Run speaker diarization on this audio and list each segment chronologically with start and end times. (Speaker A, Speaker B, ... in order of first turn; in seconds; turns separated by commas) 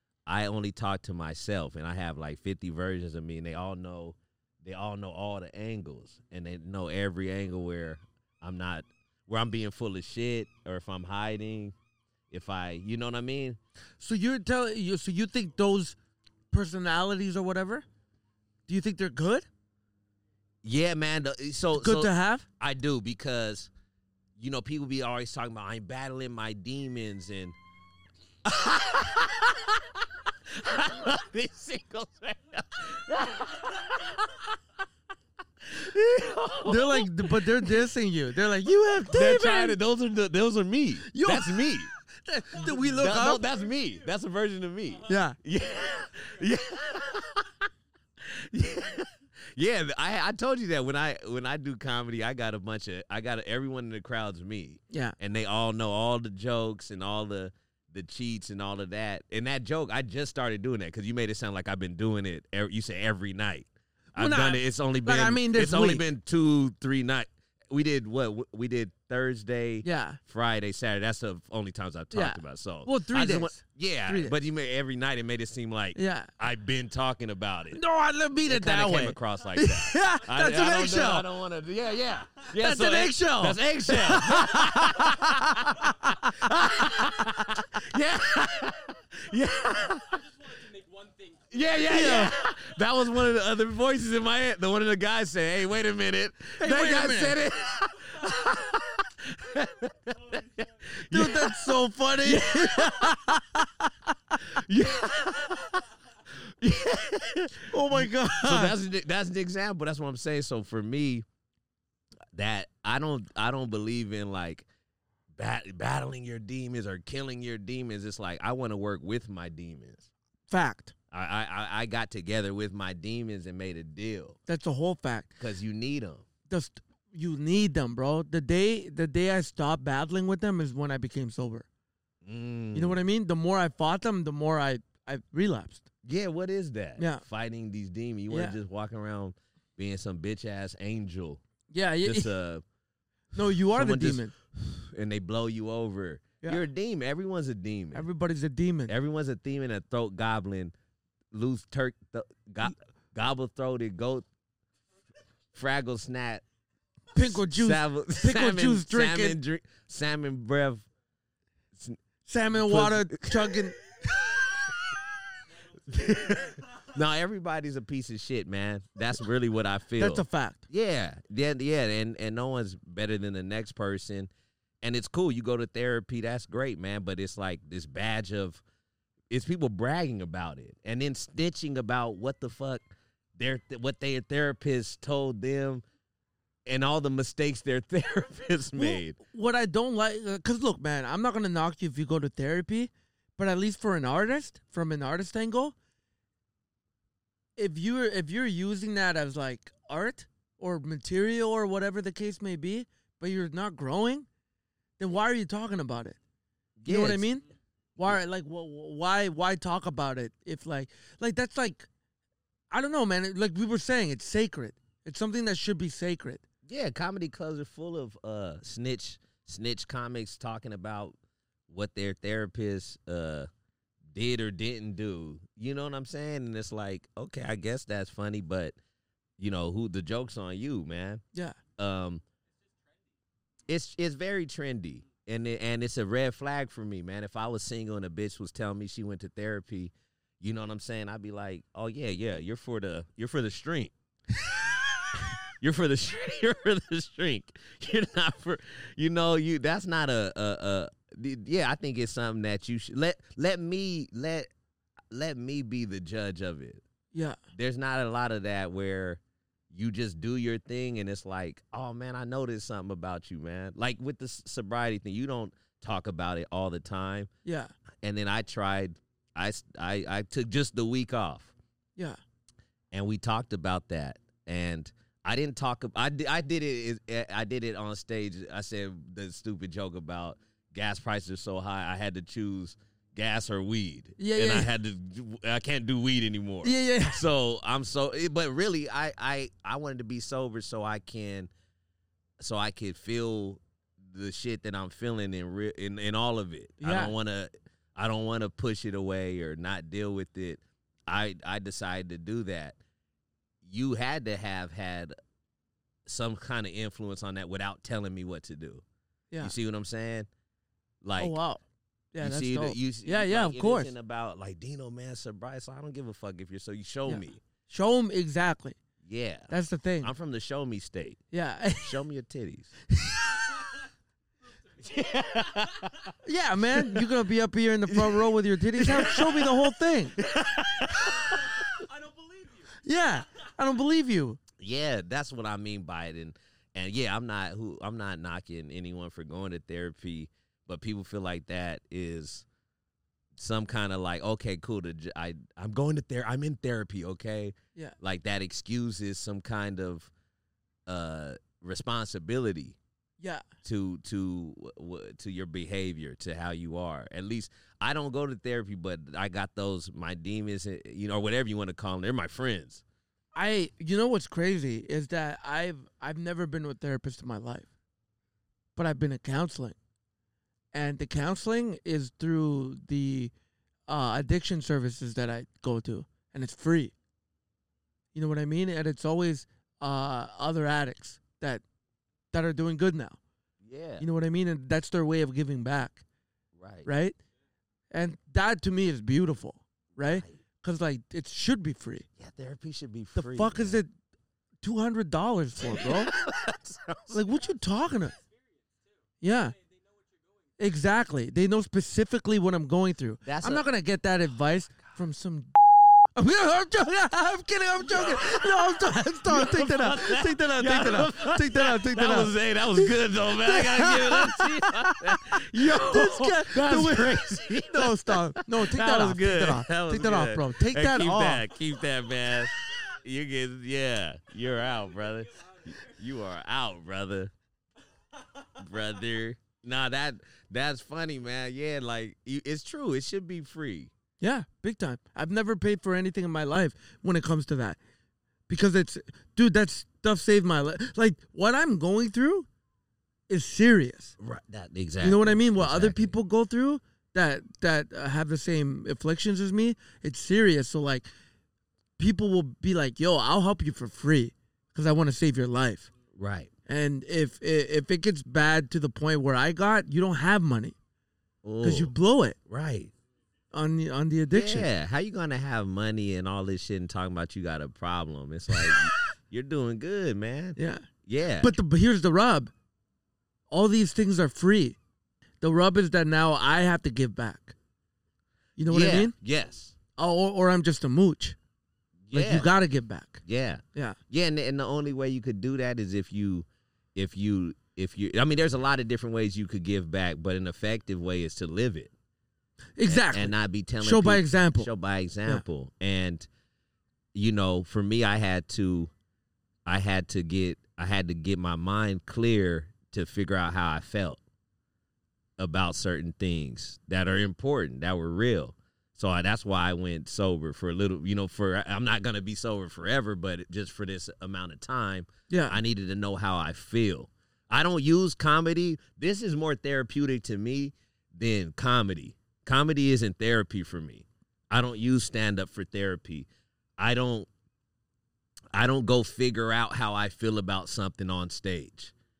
Speaker A: 0.3-11.7, Speaker A: 12.3-13.6, Speaker B: 14.0-15.9, Speaker B: 16.5-17.8, Speaker B: 18.7-19.5, Speaker A: 20.6-23.7, Speaker B: 21.8-22.4, Speaker A: 24.4-27.6, Speaker A: 28.4-34.6, Speaker A: 35.6-37.9, Speaker B: 36.6-39.8, Speaker A: 39.0-41.9, Speaker B: 41.0-41.7, Speaker B: 42.2-43.4, Speaker A: 42.5-47.6, Speaker B: 45.0-45.4, Speaker A: 48.2-77.8, Speaker B: 54.9-55.1, Speaker B: 64.1-66.0, Speaker B: 69.8-70.2, Speaker B: 72.1-74.3, Speaker B: 76.0-76.3, Speaker B: 77.7-81.3, Speaker A: 78.5-90.2, Speaker B: 82.5-85.7, Speaker C: 89.9-92.6, Speaker A: 91.5-103.3, Speaker B: 91.8-92.3, Speaker B: 96.6-97.4, Speaker C: 100.2-100.7, Speaker B: 101.1-103.9, Speaker A: 104.4-111.2, Speaker B: 107.7-108.8, Speaker A: 112.3-114.7, Speaker A: 115.3-120.1, Speaker B: 120.5-120.9, Speaker A: 121.1-124.4, Speaker B: 124.5-125.4, Speaker A: 125.4-126.2, Speaker B: 126.5-131.7, Speaker A: 132.2-133.0, Speaker B: 132.7-135.9, Speaker A: 136.0-141.4, Speaker B: 137.0-137.2, Speaker B: 138.3-138.6, Speaker B: 141.7-142.3, Speaker A: 142.0-142.6, Speaker B: 143.3-144.3, Speaker A: 143.4-148.1, Speaker B: 147.9-148.9, Speaker A: 148.9-150.7, Speaker A: 151.3-154.2, Speaker A: 155.5-156.4, Speaker B: 157.1-159.4, Speaker A: 157.1-160.9, Speaker A: 161.7-162.0, Speaker B: 162.2-163.8, Speaker A: 162.5-163.6, Speaker A: 165.8-174.3, Speaker C: 165.9-166.5, Speaker B: 170.0-170.6, Speaker A: 174.8-178.6, Speaker A: 179.3-185.8, Speaker A: 186.7-189.2, Speaker B: 188.7-195.7, Speaker B: 197.6-204.3, Speaker B: 205.0-206.2, Speaker A: 206.8-207.3, Speaker B: 206.8-207.4, Speaker B: 208.0-211.9, Speaker B: 212.7-216.4, Speaker A: 216.7-221.2, Speaker A: 221.7-223.5, Speaker A: 224.1-228.8, Speaker A: 229.4-231.2, Speaker A: 231.8-232.2, Speaker C: 232.6-233.1, Speaker A: 233.7-243.9, Speaker A: 244.7-254.5, Speaker A: 255.1-256.8, Speaker B: 257.1-257.4, Speaker A: 257.5-259.2, Speaker A: 259.7-267.3, Speaker B: 267.4-267.7, Speaker A: 268.0-271.5, Speaker A: 272.9-291.5, Speaker B: 284.2-284.7, Speaker B: 286.6-287.2, Speaker A: 292.4-302.8, Speaker B: 296.8-297.1, Speaker A: 303.6-305.1, Speaker A: 306.1-308.8, Speaker A: 309.4-310.3, Speaker A: 311.0-311.4, Speaker B: 311.2-311.6, Speaker B: 312.1-313.9, Speaker A: 312.2-317.4, Speaker B: 317.1-318.8, Speaker A: 319.0-321.2, Speaker B: 319.5-320.1, Speaker B: 321.3-322.0, Speaker A: 321.8-322.7, Speaker B: 323.0-323.3, Speaker C: 323.4-323.8, Speaker C: 324.4-326.1, Speaker A: 324.8-326.1, Speaker B: 326.2-330.2, Speaker A: 326.7-327.1, Speaker A: 327.9-331.5, Speaker C: 331.0-332.7, Speaker B: 332.8-334.4, Speaker A: 334.6-342.4, Speaker A: 343.4-350.1, Speaker A: 350.9-352.8, Speaker A: 353.6-362.8, Speaker B: 363.3-367.7, Speaker B: 368.8-369.8, Speaker B: 370.7-373.3, Speaker B: 373.9-376.9, Speaker B: 378.1-381.6, Speaker B: 382.3-383.2, Speaker A: 383.6-384.0, Speaker B: 384.0-386.0, Speaker A: 386.6-386.9, Speaker B: 386.9-387.1, Speaker B: 387.9-392.1, Speaker A: 390.0-390.4, Speaker A: 392.2-393.8, Speaker B: 393.1-393.9, Speaker B: 394.6-396.1, Speaker A: 395.6-397.2, Speaker B: 397.1-398.1, Speaker C: 397.8-400.6, Speaker B: 399.2-399.5, Speaker B: 400.6-405.5, Speaker A: 403.2-403.6, Speaker B: 406.1-412.9, Speaker A: 407.9-408.5, Speaker A: 409.2-427.3, Speaker B: 413.4-421.4, Speaker C: 424.5-426.0, Speaker A: 428.6-433.9, Speaker B: 434.2-437.8, Speaker B: 438.5-442.5, Speaker B: 443.3-444.1, Speaker A: 444.2-446.1, Speaker B: 445.0-451.1, Speaker B: 452.0-455.9, Speaker A: 456.1-456.5, Speaker B: 456.7-460.8, Speaker A: 461.4-461.9, Speaker B: 461.6-462.4, Speaker A: 462.5-462.9, Speaker B: 463.5-464.7, Speaker A: 464.3-471.6, Speaker B: 470.6-470.9, Speaker B: 471.4-472.5, Speaker B: 473.5-474.8, Speaker B: 475.4-477.5, Speaker B: 478.6-479.1, Speaker A: 478.7-479.7, Speaker B: 480.0-481.4, Speaker A: 482.1-482.5, Speaker B: 482.1-483.2, Speaker A: 483.2-491.9, Speaker B: 492.8-494.7, Speaker A: 492.9-496.3, Speaker A: 497.1-498.9, Speaker A: 499.6-504.2, Speaker A: 505.4-527.3, Speaker B: 515.3-515.6, Speaker A: 528.5-531.9